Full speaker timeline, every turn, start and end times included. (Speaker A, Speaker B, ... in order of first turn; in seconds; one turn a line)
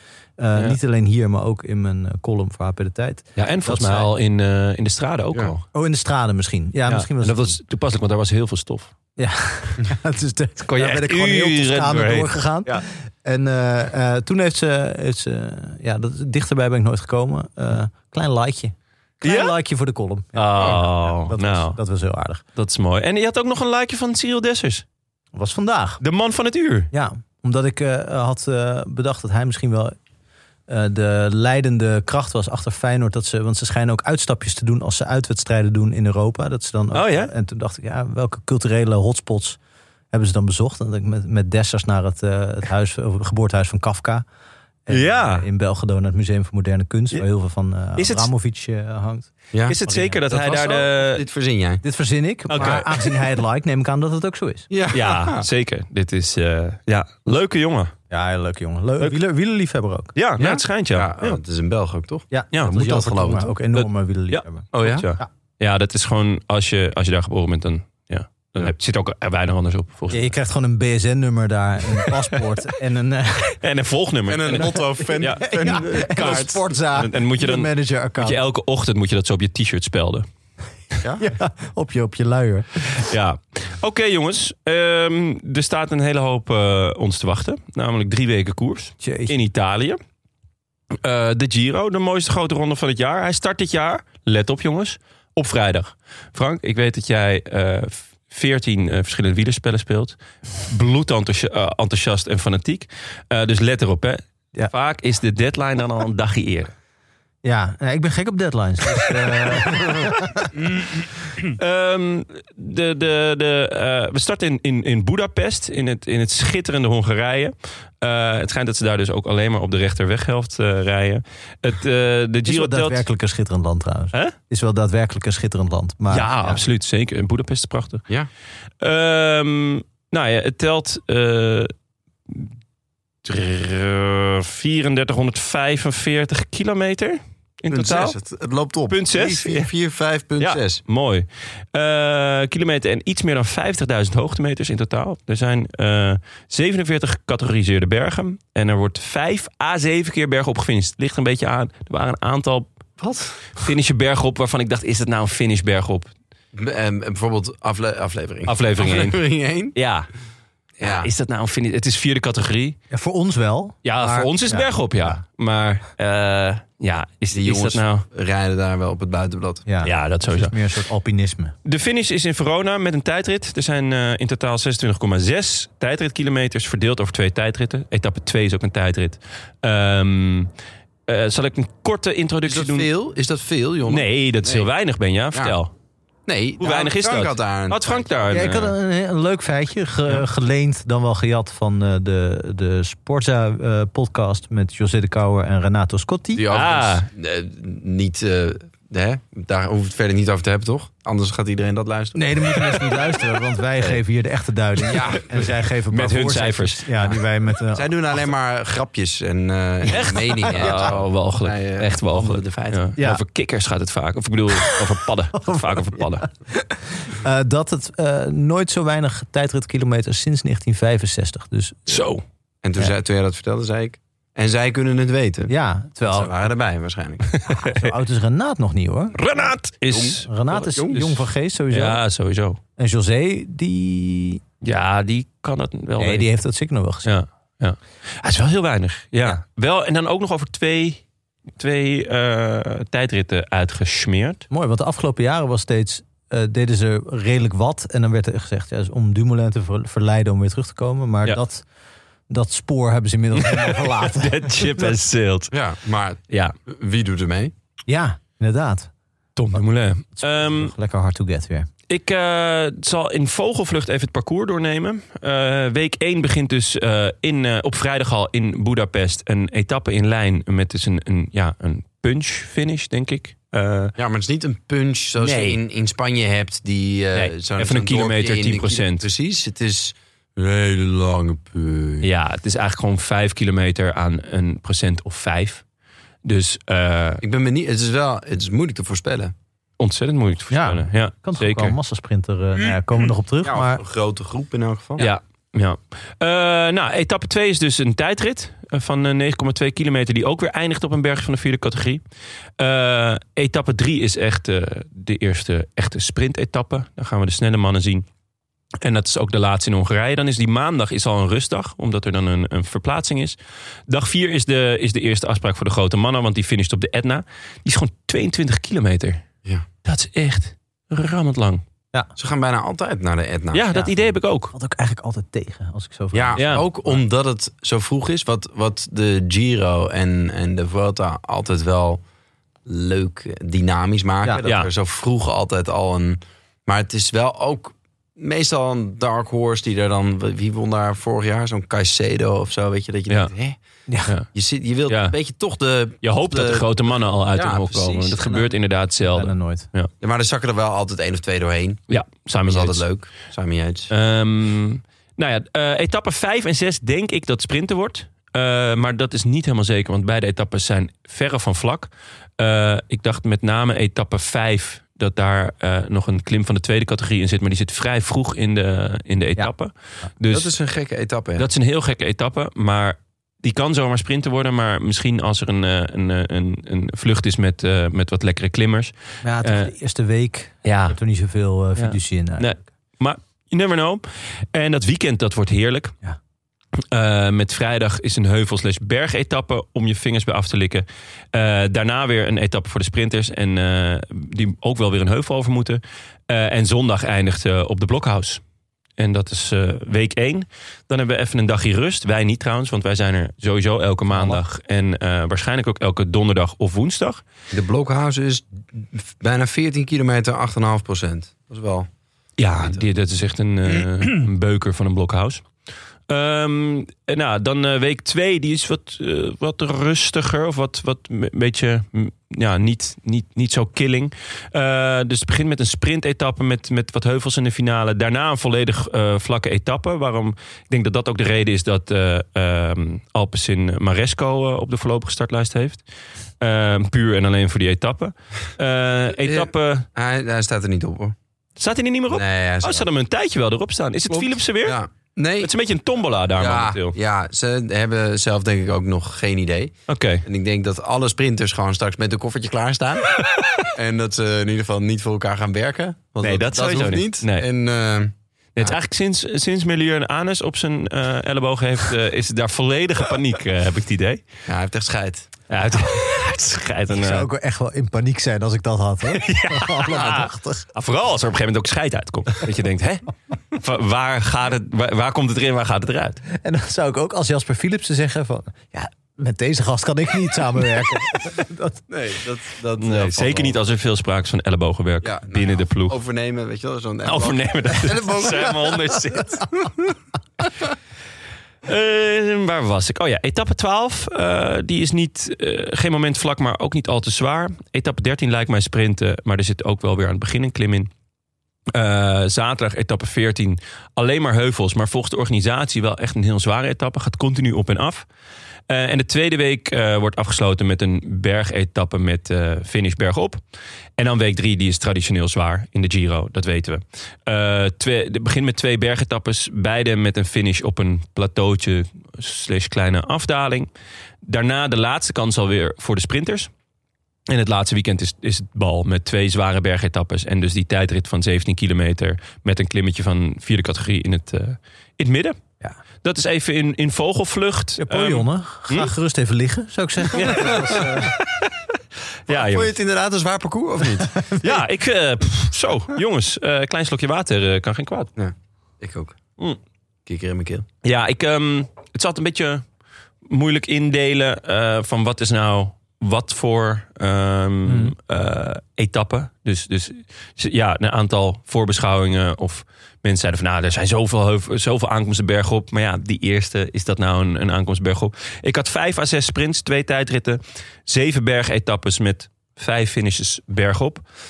Speaker A: 0.4-4.1
Speaker B: 3.4-5.7
Speaker A: 5.7-7.6
Speaker B: 6.9-8.9
Speaker A: 9.2-22.4
Speaker B: 10.7-12.8
Speaker B: 19.2-19.5
Speaker B: 20.4-21.8
Speaker C: 20.6-20.8
Speaker B: 22.6-24.8
Speaker A: 25.3-26.0
Speaker B: 26.0-26.9
Speaker A: 26.9-30.0
Speaker A: 30.7-39.6
Speaker B: 36.9-37.3
Speaker A: 40.1-44.2
Speaker A: 44.9-49.3
Speaker B: 44.9-45.5
Speaker B: 48.0-48.3
Speaker B: 49.7-51.2
Speaker A: 49.8-50.2
Speaker C: 50.3-51.8
Speaker A: 51.8-54.7
Speaker B: 52.5-53.2
Speaker C: 52.5-52.8
Speaker C: 54.7-55.5
Speaker B: 54.9-57.9
Speaker A: 58.1-60.1
Speaker B: 60.1-61.4
Speaker C: 60.4-63.5
Speaker A: 62.3-65.3
Speaker B: 62.5-62.8
Speaker B: 63.7-70.3
Speaker C: 64.7-65.1
Speaker A: 70.1-73.6
Speaker B: 73.6-80.3
Speaker C: 74.3-76.6
Speaker A: 74.5-78.4
Speaker A: 81.2-82.8
Speaker B: 83.0-90.0
Speaker A: 89.0-89.3
Speaker B: 91.0-106.7
Speaker A: 107.4-110.5
Speaker B: 111.4-123.0
Speaker A: 122.5-126.6
Speaker B: 126.1-128.0
Speaker B: 128.8-131.7
Speaker B: 133.2-138.2
Speaker C: 137.7-140.8
Speaker B: 138.9-139.7
Speaker B: 140.4-152.7
Speaker C: 153.0-153.4
Speaker B: 153.6-156.1
Speaker C: 156.5-159.8
Speaker B: 158.5-159.2
Speaker B: 159.7-160.1
Speaker C: 160.8-161.1
Speaker B: 160.8-162.8
Speaker A: 162.9-165.2
Speaker B: 163.8-168.1
Speaker C: 167.3-169.7
Speaker A: 169.7-171.6
Speaker B: 169.8-170.5
Speaker B: 171.7-180.5
Speaker B: 181.1-182.9
Speaker C: 182.4-184.7
Speaker B: 183.9-185.7
Speaker C: 186.3-188.1
Speaker B: 186.6-188.8
Speaker A: 188.3-196.5
Speaker C: 196.3-202.9
Speaker B: 196.5-197.1
Speaker A: 202.2-207.9
Speaker C: 204.8-205.5
Speaker B: 205.9-206.8
Speaker C: 207.0-212.9
Speaker B: 209.9-216.3
Speaker A: 210.6-210.8
Speaker A: 213.0-213.2
Speaker A: 215.4-222.0
Speaker B: 221.9-222.2
Speaker C: 222.6-227.3
Speaker A: 225.5-226.3
Speaker B: 227.4-227.9
Speaker A: 227.5-229.2
Speaker B: 229.1-230.3
Speaker C: 229.9-231.0
Speaker A: 230.2-232.0
Speaker B: 230.9-232.6
Speaker A: 232.8-234.4
Speaker B: 234.6-236.3
Speaker A: 236.0-237.1
Speaker B: 237.1-241.0
Speaker B: 241.6-244.4
Speaker A: 244.5-251.7
Speaker A: 252.3-254.9
Speaker B: 253.4-255.5
Speaker C: 255.5-257.5
Speaker A: 257.9-258.9
Speaker B: 259.4-260.7
Speaker A: 260.2-261.7
Speaker B: 261.9-273.9
Speaker C: 274.0-282.1
Speaker B: 275.2-275.6
Speaker B: 277.1-279.1
Speaker B: 282.0-285.6
Speaker B: 286.2-287.2
Speaker C: 287.2-289.3
Speaker B: 289.8-291.8
Speaker A: 290.5-293.8
Speaker C: 293.4-295.1
Speaker B: 295.0-302.0
Speaker B: 302.6-308.1
Speaker B: 308.8-313.4
Speaker B: 313.9-319.2
Speaker B: 319.8-321.6
Speaker C: 322.2-323.9
Speaker B: 323.5-324.5
Speaker A: 324.5-327.0
Speaker C: 326.1-332.0
Speaker B: 326.4-326.7
Speaker C: 332.6-343.6
Speaker B: 334.4-334.7
Speaker A: 343.9-344.1
Speaker C: 344.3-348.2
Speaker B: 344.9-345.2
Speaker B: 346.0-349.9
Speaker A: 348.2-348.5
Speaker A: 349.1-349.7
Speaker C: 350.0-351.8
Speaker B: 351.9-352.9
Speaker C: 352.4-353.9
Speaker B: 353.9-370.5
Speaker C: 370.3-371.5
Speaker B: 371.4-379.7
Speaker A: 379.2-382.6
Speaker B: 380.6-381.0
Speaker B: 381.8-385.9
Speaker B: 386.9-398.4
Speaker B: 399.0-407.2
Speaker A: 404.1-404.4
Speaker C: 407.5-411.9
Speaker B: 412.4-415.5
Speaker B: 416.1-435.8
Speaker B: 436.4-439.9
Speaker C: 439.2-441.2
Speaker B: 441.6-444.8
Speaker C: 442.1-442.9
Speaker C: 444.1-445.5
Speaker B: 445.4-446.9
Speaker C: 446.4-453.1
Speaker B: 449.9-450.2
Speaker C: 453.7-458.8
Speaker B: 456.2-457.5
Speaker B: 458.6-464.2
Speaker C: 464.5-465.3
Speaker B: 465.5-467.3
Speaker A: 466.9-470.7
Speaker B: 469.1-476.2
Speaker A: 476.3-481.8
Speaker C: 481.9-483.6
Speaker B: 482.8-486.0
Speaker C: 485.0-489.0
Speaker B: 487.1-489.5
Speaker B: 491.7-500.9
Speaker B: 501.7-508.1
Speaker B: 508.7-513.4
Speaker B: 514.0-523.7
Speaker B: 524.2-526.5
Speaker B: 527.3-535.4
Speaker B: 536.0-538.9
Speaker A: 537.8-541.1
Speaker B: 540.1-541.3
Speaker B: 542.3-542.7
Speaker C: 542.3-544.1
Speaker A: 544.1-544.6
Speaker B: 544.4-548.1
Speaker C: 548.2-549.2
Speaker C: 550.1-550.7
Speaker B: 550.8-552.6
Speaker B: 553.3-574.0
Speaker A: 557.7-557.9